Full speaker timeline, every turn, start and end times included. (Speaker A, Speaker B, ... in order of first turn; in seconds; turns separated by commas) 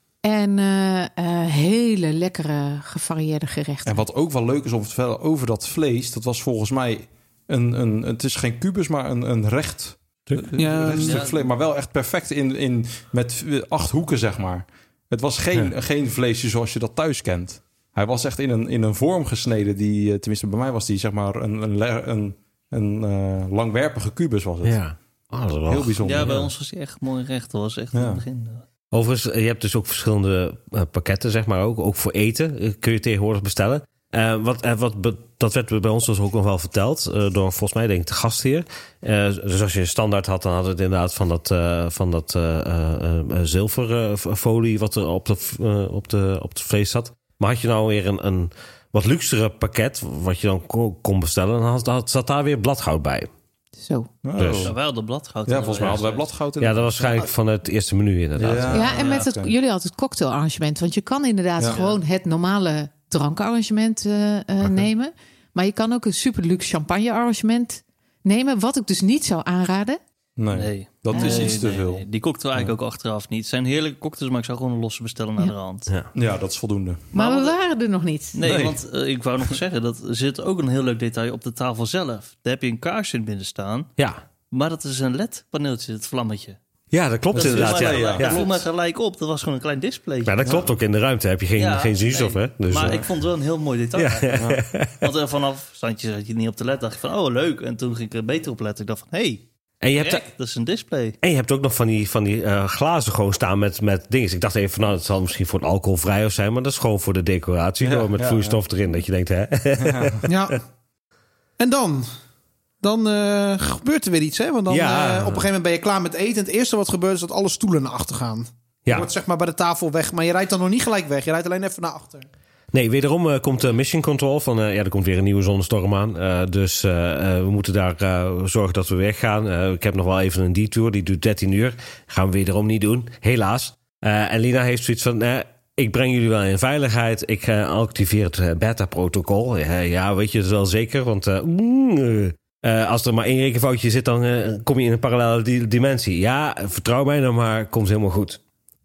Speaker A: 0.2-4.0, Speaker B: 3.8-24.8, Speaker C: 10.5-11.2, Speaker D: 10.6-11.5, Speaker E: 24.6-26.4, Speaker B: 25.7-26.5, Speaker D: 26.0-28.6, Speaker B: 27.9-28.2, Speaker E: 28.9-53.3, Speaker A: 53.8-54.1, Speaker B: 54.2-54.7, Speaker E: 54.4-54.7, Speaker D: 54.6-56.3, Speaker B: 55.5-57.3, Speaker E: 56.6-58.8, Speaker B: 58.4-59.5, Speaker A: 58.7-70.0, Speaker D: 58.9-59.2, Speaker D: 61.7-62.0, Speaker B: 70.4-72.0, Speaker D: 70.5-75.9, Speaker A: 71.1-71.5, Speaker B: 76.1-77.1, Speaker A: 77.1-78.5, Speaker D: 77.1-77.5, Speaker D: 78.3-83.9, Speaker B: 78.4-78.8, Speaker D: 84.5-86.6, Speaker E: 86.9-88.4, Speaker B: 87.3-88.6, Speaker D: 87.3-90.5, Speaker E: 90.2-93.0, Speaker B: 90.4-90.7, Speaker D: 91.5-99.4, Speaker E: 94.0-94.9, Speaker B: 94.3-94.6, Speaker E: 99.8-100.2, Speaker D: 100.0-101.2, Speaker E: 101.2-110.1, Speaker B: 107.8-108.6, Speaker B: 109.8-110.2, Speaker C: 110.2-110.6, Speaker C: 111.6-112.0, Speaker C: 112.8-122.3, Speaker E: 114.7-115.5, Speaker E: 122.7-148.4